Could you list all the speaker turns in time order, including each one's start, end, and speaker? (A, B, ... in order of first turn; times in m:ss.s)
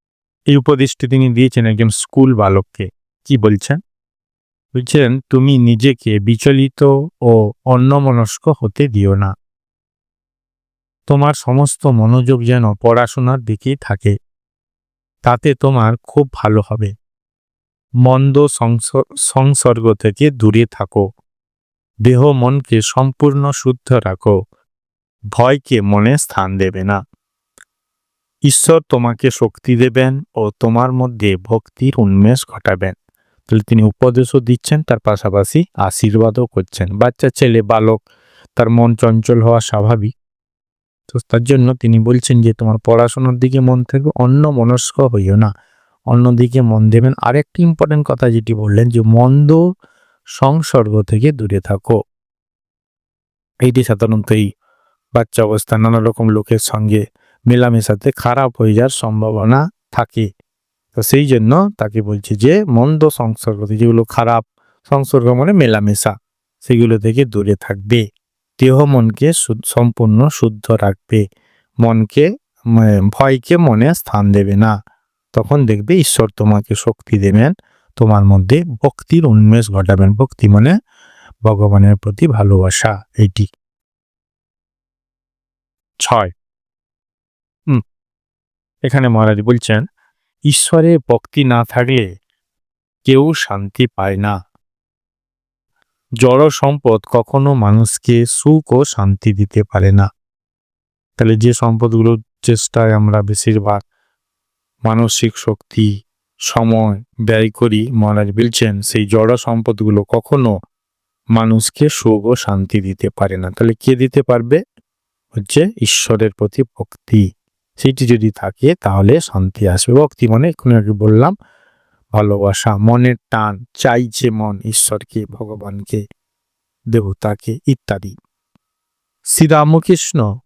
0:00.5-0:03.8 A
0:04.7-0:09.3 A
0:11.1-0:14.1 A
0:15.2-0:16.9 A
0:18.0-0:21.0 A
0:22.0-0:24.3 A
0:25.4-0:27.0 A
0:28.5-0:32.9 A
0:33.5-0:38.0 A
0:38.6-0:40.1 A
0:41.1-0:45.5 A
0:46.1-0:49.6 A
0:50.4-0:52.0 A
0:53.6-0:54.5 A
0:55.1-1:00.3 A
1:00.9-1:08.0 A
1:08.6-1:11.2 A
1:11.8-1:14.7 A
1:15.3-1:20.7 A
1:21.4-1:23.4 A
1:26.0-1:26.3 A
1:28.9-1:29.8 A
1:30.5-1:32.0 A
1:33.0-1:34.4 A
1:36.2-1:40.1 A
1:41.2-1:43.8 A
1:44.8-1:45.9 A
1:46.5-1:50.5 A
1:51.4-1:54.6 A
1:55.4-1:57.2 A
1:57.8-2:01.3 A
2:02.1-2:06.0 A
2:06.9-2:08.1 A
2:09.3-2:10.2 A